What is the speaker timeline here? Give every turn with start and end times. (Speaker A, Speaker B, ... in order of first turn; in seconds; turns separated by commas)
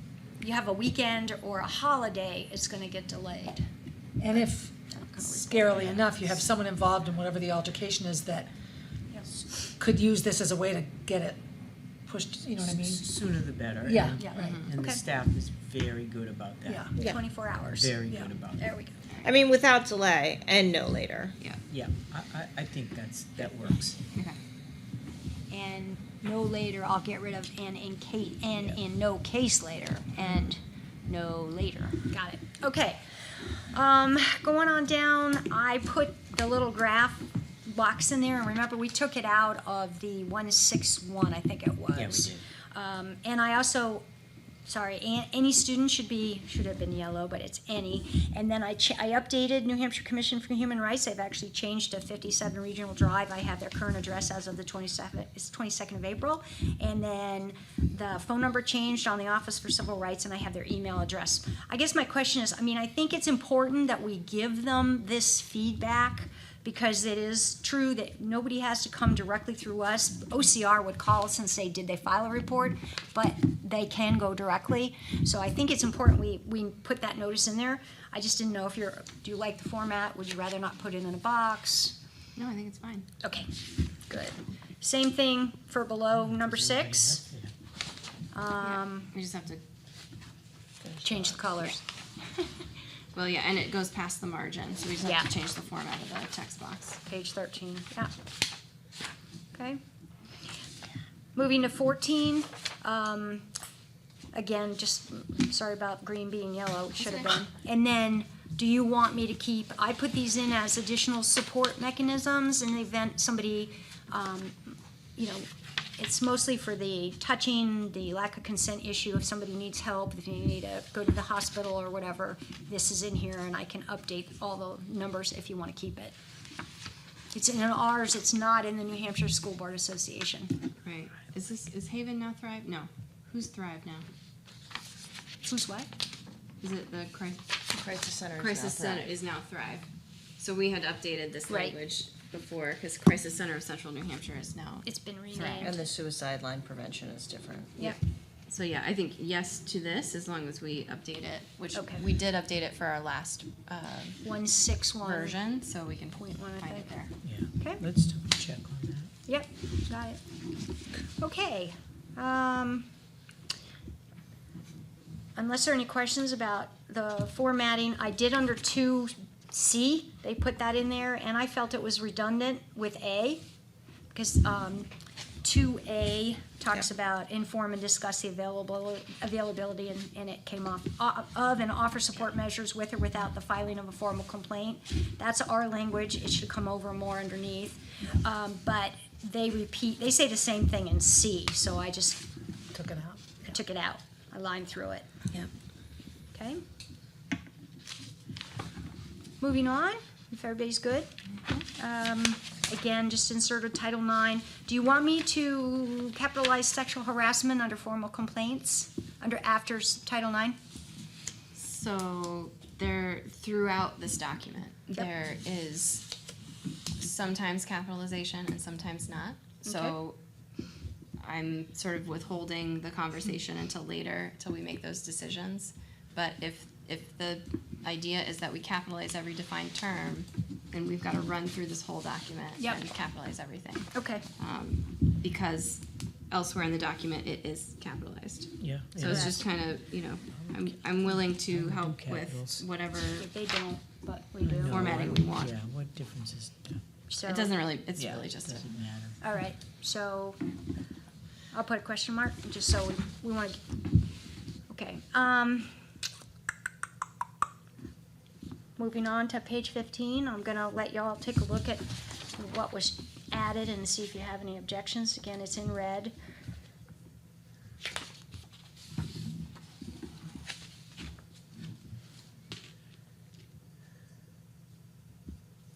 Speaker A: 0.4-3.6, Speaker B: 4.2-8.5, Speaker A: 4.3-6.1, Speaker B: 9.8-11.4, Speaker B: 12.1-13.0, Speaker C: 12.6-16.9, Speaker B: 13.8-14.7, Speaker A: 14.2-15.0, Speaker B: 16.6-17.0, Speaker A: 17.0-17.9, Speaker C: 17.6-18.7, Speaker A: 18.5-19.0, Speaker D: 19.2-21.3, Speaker C: 21.7-24.0, Speaker A: 25.5-44.0, Speaker C: 41.9-42.4, Speaker A: 44.6-81.9, Speaker E: 82.3-83.1, Speaker A: 83.2-83.5, Speaker A: 84.1-87.2, Speaker C: 86.1-87.5, Speaker A: 88.3-89.1, Speaker E: 88.6-89.6, Speaker D: 90.8-91.2, Speaker A: 91.0-91.8, Speaker E: 93.1-97.0, Speaker A: 95.0-95.3, Speaker A: 97.0-98.1, Speaker A: 99.5-99.8, Speaker A: 101.3-103.5, Speaker A: 104.3-126.1, Speaker E: 107.0-107.3, Speaker A: 127.3-130.5, Speaker E: 130.8-134.0, Speaker A: 135.4-135.9, Speaker E: 136.6-137.4, Speaker D: 137.7-139.1, Speaker E: 138.4-139.8, Speaker E: 140.4-145.7, Speaker A: 141.5-141.8, Speaker A: 144.8-145.8, Speaker D: 145.6-147.8, Speaker E: 148.5-154.2, Speaker A: 151.7-152.0, Speaker A: 154.2-155.4, Speaker E: 155.0-157.1, Speaker A: 156.2-156.9, Speaker C: 157.2-159.1, Speaker A: 159.3-160.2, Speaker A: 161.2-162.9, Speaker A: 165.3-173.4, Speaker A: 174.1-174.9, Speaker A: 175.4-192.2, Speaker B: 192.7-193.4, Speaker A: 193.5-195.1, Speaker A: 196.3-196.6, Speaker A: 199.4-201.1, Speaker A: 201.7-210.6, Speaker E: 211.5-216.1, Speaker E: 217.0-220.2, Speaker A: 219.6-220.0, Speaker E: 221.2-243.3, Speaker A: 232.6-232.8, Speaker A: 233.9-234.2, Speaker C: 238.6-239.3, Speaker C: 240.4-242.6, Speaker A: 243.0-245.0, Speaker C: 244.4-246.8, Speaker E: 244.7-245.5, Speaker A: 247.1-247.5, Speaker E: 247.2-248.7, Speaker C: 247.9-249.2, Speaker A: 249.2-250.4, Speaker A: 251.5-253.8, Speaker A: 254.7-255.7, Speaker A: 258.8-266.1